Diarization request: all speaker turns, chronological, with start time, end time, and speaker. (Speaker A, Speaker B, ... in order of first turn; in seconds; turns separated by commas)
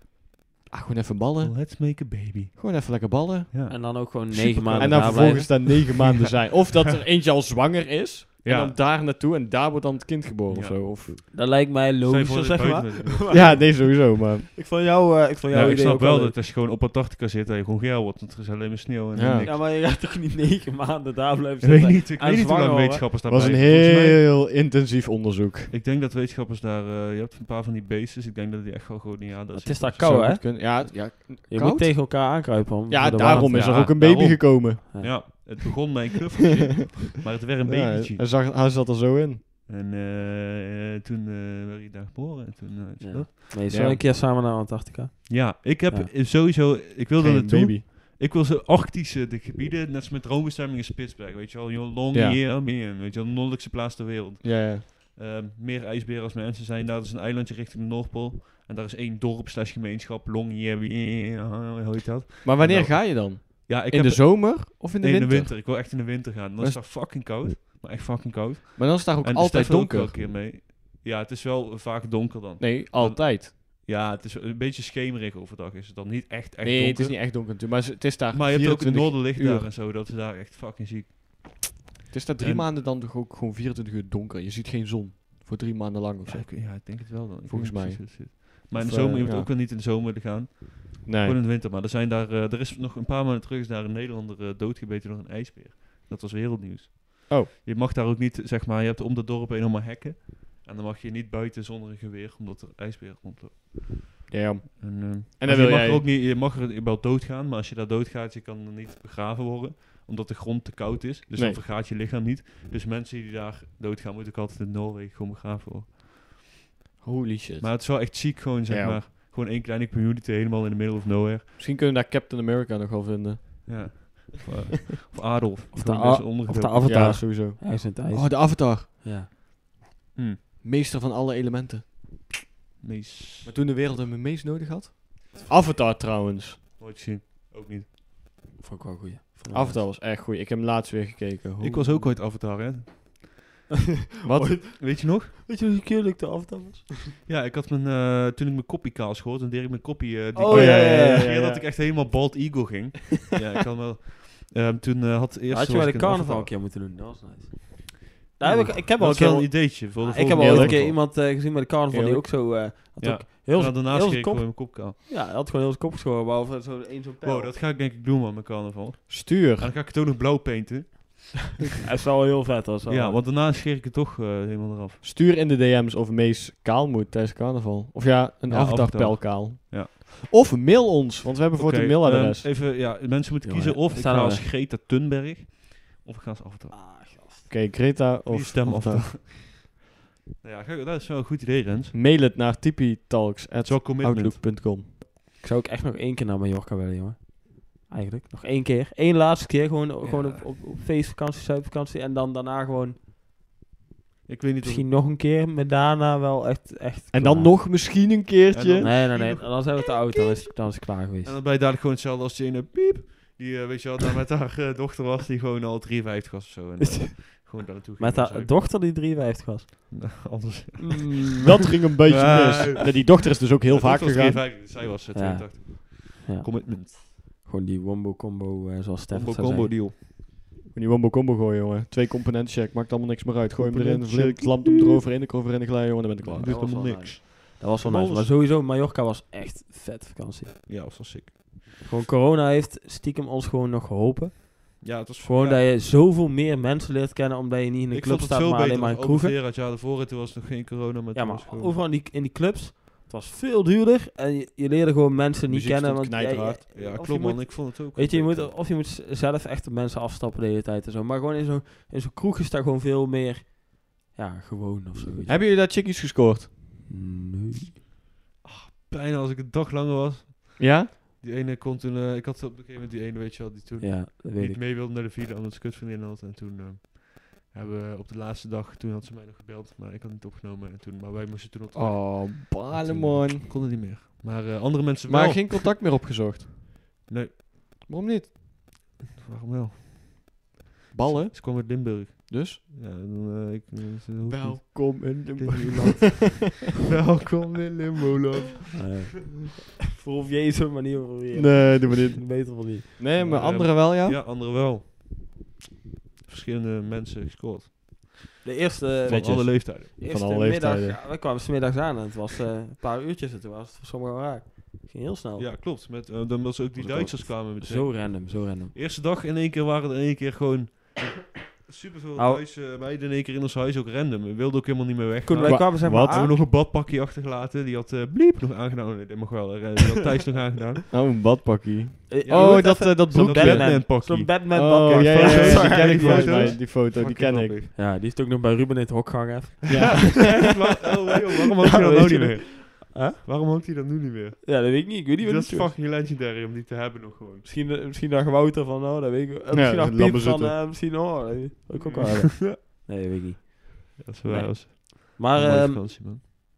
Speaker A: 0.7-3.5, Speaker B: 1.4-3.8, Speaker C: 3.7-5.7, Speaker B: 4.3-5.7, Speaker A: 4.7-11.2, Speaker B: 8.4-8.8, Speaker B: 10.5-11.3, Speaker C: 11.3-13.9, Speaker B: 12.0-13.6, Speaker A: 13.3-14.5, Speaker C: 14.5-16.4, Speaker B: 15.5-19.6, Speaker A: 19.1-19.5, Speaker C: 19.4-23.1, Speaker B: 21.6-24.2, Speaker A: 23.3-25.7, Speaker B: 25.7-30.2, Speaker C: 29.5-33.9, Speaker A: 30.0-32.3, Speaker A: 32.9-34.8, Speaker B: 33.2-38.2, Speaker C: 34.9-35.2, Speaker A: 37.6-39.4, Speaker B: 39.7-43.5, Speaker C: 43.0-46.1, Speaker A: 43.7-44.0, Speaker B: 45.3-77.3, Speaker A: 47.2-47.9, Speaker A: 52.1-52.4, Speaker A: 54.4-54.8, Speaker A: 62.4-66.8, Speaker A: 68.8-70.2, Speaker A: 72.6-73.5, Speaker A: 76.6-79.7, Speaker B: 78.3-81.8, Speaker A: 82.1-89.5, Speaker B: 82.4-82.7, Speaker B: 86.2-104.1, Speaker A: 91.0-91.4, Speaker A: 104.3-106.0, Speaker B: 104.8-116.0, Speaker A: 111.3-111.6, Speaker A: 117.0-119.0, Speaker B: 117.6-121.4, Speaker A: 121.6-124.1, Speaker B: 123.6-127.3, Speaker C: 125.7-129.3, Speaker A: 126.8-128.9, Speaker A: 130.6-132.3, Speaker B: 132.8-133.5, Speaker A: 133.4-136.6, Speaker B: 136.8-137.9, Speaker C: 138.6-139.8, Speaker A: 139.5-142.2, Speaker B: 141.6-143.3, Speaker C: 144.2-147.1, Speaker A: 144.2-144.6, Speaker B: 144.7-145.3, Speaker B: 147.2-156.5, Speaker C: 150.3-151.3, Speaker A: 150.5-151.7, Speaker C: 155.5-167.5, Speaker B: 158.5-160.9, Speaker A: 160.3-161.2, Speaker A: 161.9-162.2, Speaker B: 163.0-165.0, Speaker B: 167.2-171.5, Speaker A: 169.1-169.7, Speaker C: 171.8-173.2, Speaker B: 172.9-175.0, Speaker A: 175.0-182.5, Speaker B: 178.5-179.9, Speaker B: 181.5-186.8, Speaker C: 183.4-184.5, Speaker C: 186.7-187.5, Speaker A: 187.5-189.1, Speaker B: 188.3-189.8, Speaker B: 190.4-191.9, Speaker A: 191.9-194.9, Speaker B: 193.6-194.7, Speaker C: 195.4-203.0, Speaker B: 200.0-200.4, Speaker B: 204.3-204.9, Speaker C: 204.6-207.6, Speaker A: 207.1-208.9, Speaker B: 208.5-209.5, Speaker C: 208.8-211.4, Speaker B: 211.2-218.6, Speaker C: 216.8-217.4, Speaker C: 218.0-220.1, Speaker B: 219.9-221.3, Speaker C: 220.8-221.4, Speaker A: 221.4-224.4, Speaker B: 222.1-227.0, Speaker C: 225.1-229.7, Speaker B: 229.1-230.0, Speaker A: 230.7-236.7, Speaker B: 233.6-235.0, Speaker C: 236.2-240.6, Speaker B: 236.3-238.3, Speaker B: 240.7-241.7, Speaker C: 241.8-249.3, Speaker B: 244.8-245.7, Speaker B: 247.9-251.8, Speaker C: 251.1-265.4, Speaker A: 255.5-256.6, Speaker B: 256.7-258.5, Speaker A: 265.3-266.5, Speaker C: 266.9-267.7, Speaker B: 268.4-285.7, Speaker A: 270.6-270.9, Speaker C: 273.8-274.6, Speaker A: 281.7-283.6, Speaker A: 285.1-286.5, Speaker B: 287.1-287.4, Speaker A: 287.9-288.3, Speaker B: 289.0-290.4, Speaker A: 290.9-292.6, Speaker B: 291.0-298.7, Speaker A: 294.3-296.5, Speaker C: 298.7-303.3, Speaker A: 301.3-304.2, Speaker B: 303.2-305.3, Speaker B: 306.3-308.2, Speaker C: 308.4-315.5, Speaker B: 309.0-309.9, Speaker A: 309.1-311.0, Speaker B: 315.4-330.8, Speaker C: 316.8-318.7, Speaker C: 322.1-322.4, Speaker C: 325.2-326.4, Speaker A: 325.4-326.4, Speaker A: 330.9-333.9, Speaker C: 332.1-336.6, Speaker B: 332.2-337.7, Speaker A: 334.5-337.6, Speaker C: 337.7-340.5, Speaker A: 339.7-340.5, Speaker B: 339.9-347.5, Speaker C: 341.6-343.2, Speaker C: 344.4-345.7, Speaker C: 347.4-355.8, Speaker A: 349.5-350.6, Speaker B: 351.8-352.6, Speaker B: 354.0-356.2